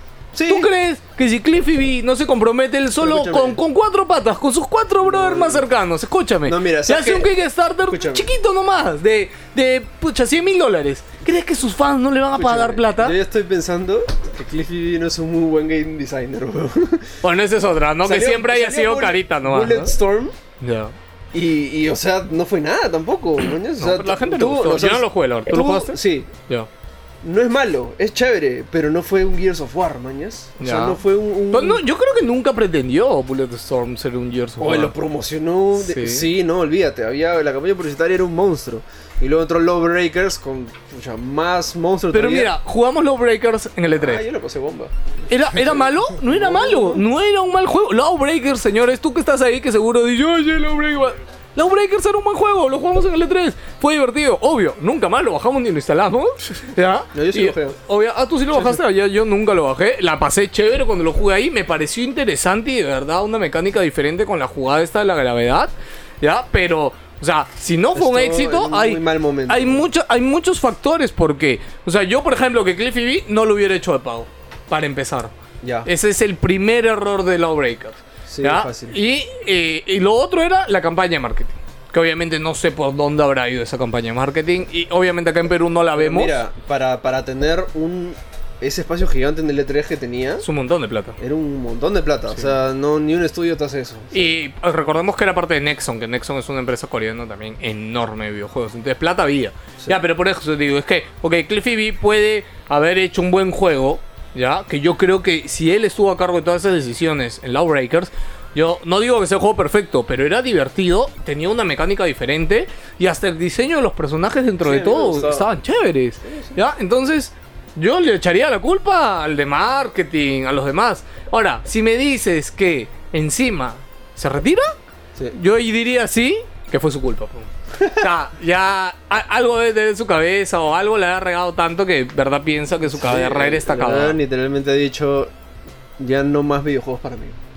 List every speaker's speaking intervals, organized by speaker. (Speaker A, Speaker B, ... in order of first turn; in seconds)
Speaker A: 0.3-0.7, 3.0-3.6, 5.0-5.7, 6.5-7.3, 7.9-8.3, 12.3-17.2, 18.0-20.3, 21.3-26.3, 27.2-31.8, 34.6-42.5, 44.0-44.9, 45.5-47.0, 57.1-57.8, 58.5-58.8, 67.9-69.8, 75.6-75.9, 78.3-79.0, 86.0-90.4, 91.2-94.3, 114.6-115.5, 116.2-116.6, 127.8-128.0, 132.8-135.3, 136.0-137.4
Speaker B: 0.5-13.2, 17.2-19.9, 20.6-20.9, 23.8-26.7, 30.6-31.0, 31.5-34.9, 35.8-36.3, 42.1-44.2, 45.3-75.3, 75.8-86.4, 90.4-91.2, 94.1-124.7, 125.3-134.2